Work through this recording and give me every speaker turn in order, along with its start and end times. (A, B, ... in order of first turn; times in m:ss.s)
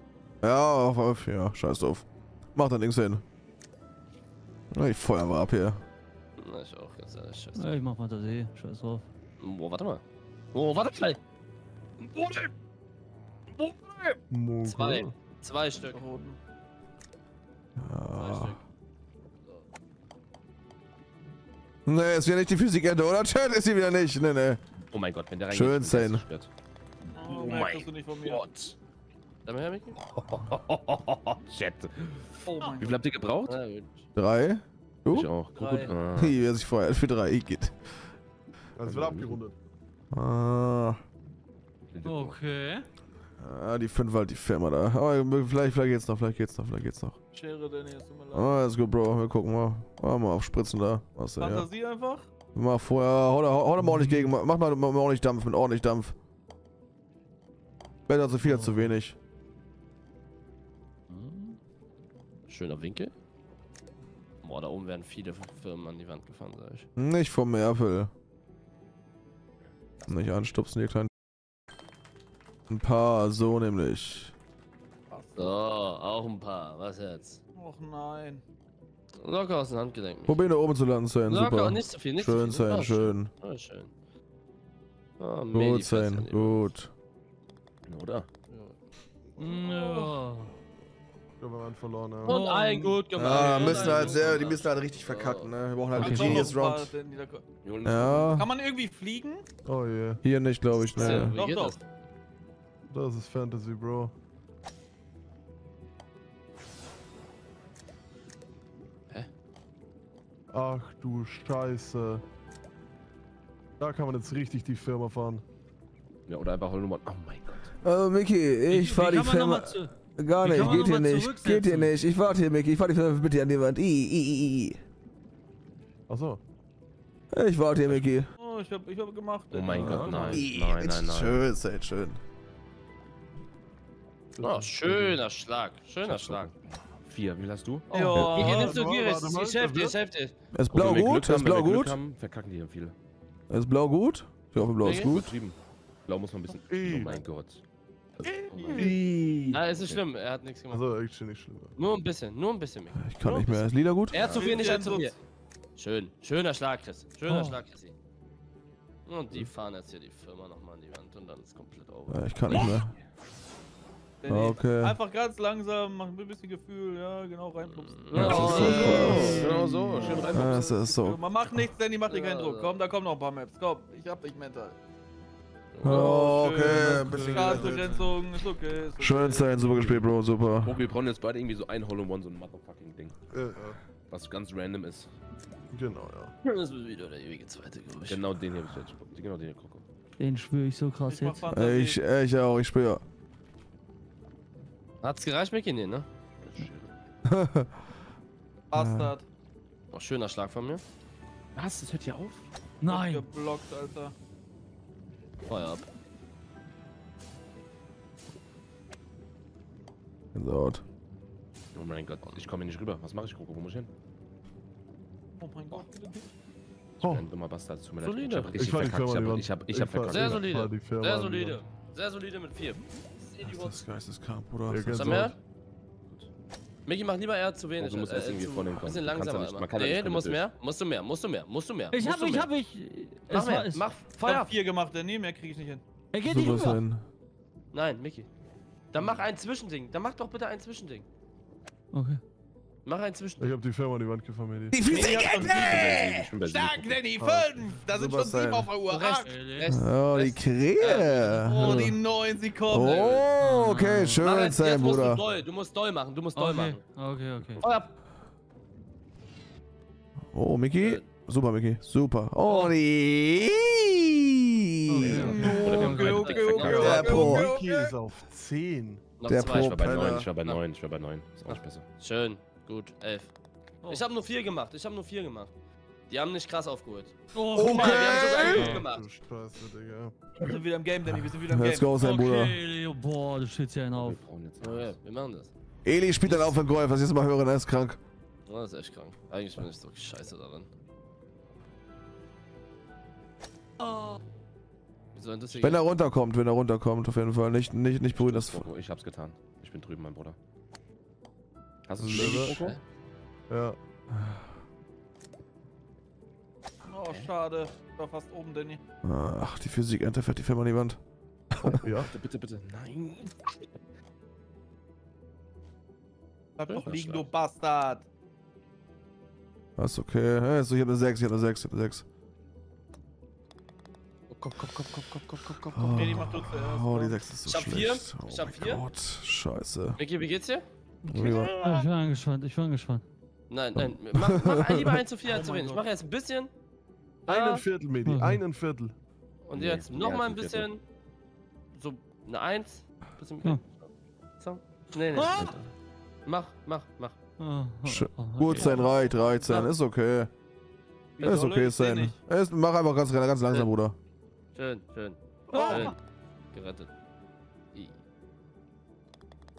0:00.4-0:03.2 A
0:04.7-0:05.8 A
0:06.4-0:07.8 B
0:07.6-0:09.0 C
0:09.4-0:10.0 B
0:10.5-0:11.2 B
0:12.0-0:12.5 B
0:13.6-0:16.0 B
0:14.3-0:15.1 D
0:15.9-0:16.4 E
0:17.8-0:18.6 A
0:18.2-0:18.6 B
0:21.9-0:24.6 A
0:24.9-0:26.5 F
0:25.5-0:26.2 A
0:27.1-0:28.4 E
0:27.3-0:28.8 F
0:29.5-0:30.0 B
0:30.1-0:33.6 F
0:32.4-0:33.0 E
0:33.4-0:34.0 B
0:34.2-0:35.3 A
0:35.1-0:36.4 F
0:35.6-0:36.0 B
0:36.2-0:37.8 A
0:38.8-0:39.6 D
0:38.8-0:39.4 F
0:40.1-0:41.0 A
0:41.9-0:42.4 F
0:42.0-0:42.9 C
0:43.4-0:47.2 A
0:47.3-0:48.6 E
0:48.3-0:51.7 A
0:51.4-0:52.3 E
0:52.5-0:56.2 A
0:53.9-0:54.2 C
0:58.1-0:59.2 A
1:01.1-1:01.6 C
1:02.5-1:03.1 B
1:04.4-1:06.9 B
1:07.0-1:08.1 A
1:10.0-1:10.4 F
1:10.1-1:11.1 A
1:12.7-1:14.3 A
1:15.1-1:15.5 E
1:15.4-1:17.4 B
1:17.6-1:18.4 E
1:19.2-1:20.5 B
1:20.3-1:23.3 A
1:21.3-1:23.9 B
1:25.2-1:26.7 B
1:25.5-1:26.9 A
1:27.9-1:28.3 F
1:28.5-1:28.8 B
1:29.4-1:30.5 C
1:29.4-1:30.1 B
1:31.4-1:32.4 D
1:32.2-1:33.0 C
1:32.2-1:35.5 B
1:33.2-1:36.9 A
1:33.6-1:34.2 E
1:36.0-1:36.4 C
1:36.0-1:37.4 E
1:37.6-1:38.4 F
1:37.8-1:38.5 A
1:38.3-1:39.5 E
1:39.6-1:40.2 D
1:40.2-1:41.4 A
1:41.0-1:41.8 B
1:41.0-1:41.8 E
1:42.9-1:44.1 D
1:50.5-1:52.2 D
1:53.8-1:55.4 D
1:56.3-1:57.7 F
1:57.8-2:04.8 A
1:58.7-2:01.9 C
2:06.1-2:06.4 D
2:07.3-2:08.3 A
2:08.4-2:10.2 E
2:09.5-2:11.4 F
2:09.8-2:10.4 D
2:10.0-2:10.4 B
2:10.3-2:12.2 A
2:14.4-2:15.2 D
2:14.4-2:16.5 B
2:16.0-2:17.9 F
2:17.9-2:18.8 E
2:17.9-2:20.3 B
2:18.4-2:20.0 D
2:20.5-2:22.0 A
2:20.7-2:23.0 F
2:23.5-2:25.3 A
2:24.8-2:25.1 B
2:24.9-2:27.6 F
2:26.7-2:27.2 D
2:28.3-2:28.8 E
2:28.4-2:28.9 F
2:28.7-2:29.6 A
2:29.5-2:30.8 B
2:29.8-2:30.0 F
2:30.7-2:31.7 D
2:31.8-2:35.2 B
2:33.0-2:34.4 A
2:34.1-2:34.5 F
2:34.3-2:35.2 E
2:35.8-2:37.9 B
2:37.3-2:37.6 C
2:39.1-2:42.7 B
2:42.1-2:42.9 A
2:42.6-2:42.9 F
2:44.2-2:54.8 E
2:44.3-2:45.0 A
2:47.7-2:50.7 B
2:48.1-2:49.5 C
2:48.1-2:49.6 A
2:48.7-2:50.7 F
2:50.2-2:51.2 A
2:52.1-2:52.8 B
2:55.7-2:56.3 B
2:55.8-2:58.0 A
2:55.8-2:59.6 E
2:56.5-2:58.2 C
2:59.0-3:00.8 A
2:59.6-3:00.0 D
3:00.6-3:03.3 F
3:03.3-3:03.8 D
3:04.1-3:05.1 F
3:05.7-3:06.3 D
3:06.4-3:08.2 B
3:08.1-3:09.8 F
3:10.2-3:11.5 C
3:11.1-3:12.0 E
3:11.5-3:13.0 A
3:15.0-3:16.1 B
3:16.4-3:16.9 F
3:17.2-3:17.8 A
3:18.7-3:19.2 E
3:18.7-3:19.1 A
3:19.9-3:20.8 B
3:21.6-3:22.5 F
3:22.8-3:23.3 C
3:22.9-3:24.1 E
3:25.5-3:25.9 B
3:30.3-3:30.8 A
3:31.7-3:33.9 F
3:35.4-3:36.3 E
3:37.0-3:37.3 D
3:37.0-3:40.5 F
3:38.0-3:38.5 B
3:38.6-3:41.6 D
3:40.1-3:43.8 B
3:43.4-3:45.3 A
3:44.7-3:45.4 D
3:44.9-3:45.4 B
3:46.9-3:52.5 B
3:47.8-3:50.4 F
3:51.9-3:53.9 C
3:53.3-3:54.5 B
3:54.2-3:55.8 E
3:56.1-3:56.8 C
3:56.2-3:57.0 A
3:57.7-3:58.3 B
3:58.9-4:01.1 B
4:01.9-4:02.2 C
4:02.8-4:03.6 B
4:03.4-4:04.8 D
4:04.7-4:06.3 A
4:04.8-4:09.3 E
4:04.9-4:07.0 F
4:07.2-4:07.7 D
4:07.9-4:08.7 A
4:08.9-4:11.9 B
4:09.2-4:09.7 C
4:09.7-4:12.0 A
4:10.9-4:13.2 E
4:11.6-4:11.9 C
4:12.7-4:15.2 A
4:12.8-4:13.2 B
4:13.4-4:14.2 C
4:14.2-4:16.8 B
4:16.4-4:17.7 C
4:17.6-4:17.9 B
4:20.3-4:25.4 A
4:20.8-4:21.1 B
4:22.5-4:22.7 B
4:24.9-4:26.6 C
4:25.0-4:27.0 F
4:25.1-4:28.0 E
4:25.5-4:27.2 B
4:26.6-4:27.5 A
4:26.6-4:29.1 D
4:29.2-4:30.6 B
4:29.3-4:30.3 A
4:29.5-4:31.8 F
4:31.5-4:35.5 B
4:36.1-4:39.1 B
4:37.3-4:38.8 C
4:37.5-4:38.8 A
4:38.2-4:40.2 D
4:40.4-4:41.9 E
4:41.5-4:42.6 A
4:42.0-4:44.2 C
4:43.9-4:45.0 F
4:44.6-4:45.5 B
4:45.8-4:48.0 A
4:46.2-4:46.6 B
4:48.5-4:50.7 B
4:53.8-4:54.2 C
4:55.1-4:55.9 B
4:55.6-4:58.7 A
4:58.1-5:00.4 F
5:01.9-5:02.8 F
5:02.0-5:02.6 A
5:02.0-5:02.6 D
5:02.1-5:02.8 B
5:03.5-5:03.8 D
5:04.1-5:04.4 A
5:06.9-5:08.8 E
5:09.0-5:11.0 A
5:11.5-5:11.8 A
5:11.8-5:13.3 F
5:11.8-5:12.1 D
5:16.6-5:18.1 E
5:16.7-5:17.2 B
5:16.8-5:17.3 F
5:19.8-5:22.1 A
5:24.4-5:26.0 F
5:25.7-5:30.0 A
5:25.9-5:27.2 E
5:27.4-5:28.8 B
5:30.0-5:30.7 B
5:31.1-5:31.5 A
5:31.2-5:31.8 E
5:31.3-5:31.6 D
5:31.5-5:33.0 C
5:33.5-5:36.5 B
5:34.1-5:35.0 A
5:35.2-5:35.8 E
5:37.3-5:38.9 D
5:37.3-5:37.6 B
5:38.0-5:38.4 C
5:39.4-5:40.8 B
5:39.5-5:40.7 F
5:41.7-5:45.5 B
5:45.1-5:45.6 C
5:45.3-5:45.6 F
5:46.2-5:47.2 B
5:47.4-5:49.7 C
5:47.8-5:50.3 A
5:51.2-5:52.2 E
5:51.2-5:54.0 A
5:54.6-5:56.0 B
5:55.5-5:55.8 D
5:55.5-5:55.8 E
5:55.5-5:56.0 C
5:56.5-5:56.9 B
5:57.7-5:58.0 B